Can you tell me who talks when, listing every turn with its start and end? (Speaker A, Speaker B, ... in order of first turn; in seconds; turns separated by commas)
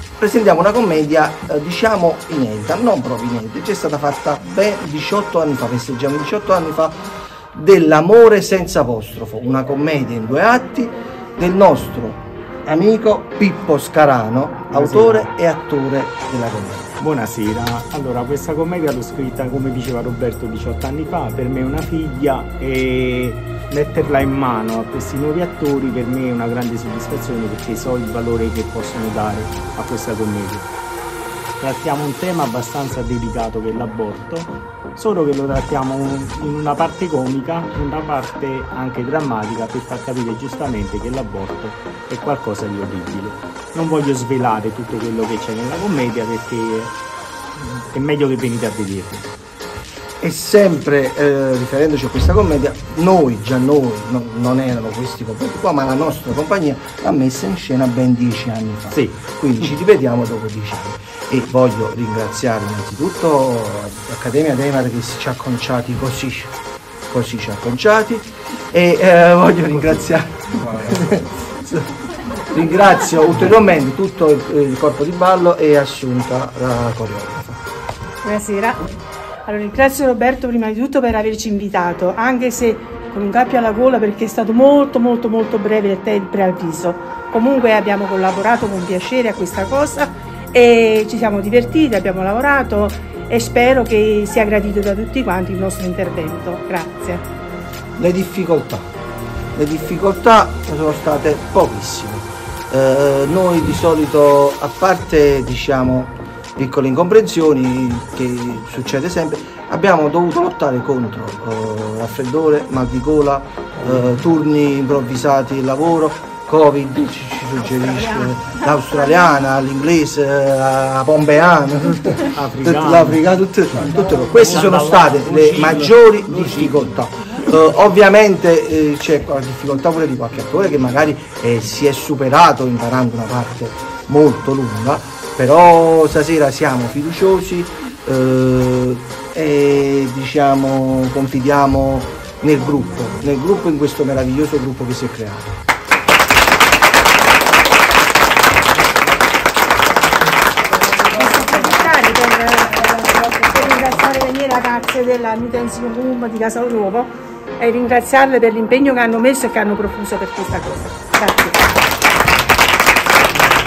Speaker A: 0.2-7.0, Speaker A: 7.5-17.0, Speaker B: 14.7-15.3, Speaker B: 17.0-30.7, Speaker B: 31.6-47.0, Speaker B: 47.7-49.3, Speaker A: 50.2-66.5, Speaker B: 58.9-59.2, Speaker A: 67.1-71.9, Speaker A: 72.5-77.6, Speaker C: 78.2-78.8, Speaker C: 79.5-97.2, Speaker A: 98.0-98.9, Speaker A: 99.5-145.6, Speaker C: 117.6-119.4, Speaker B: 122.3-123.2, Speaker B: 123.8-126.8, Speaker C: 151.1-161.7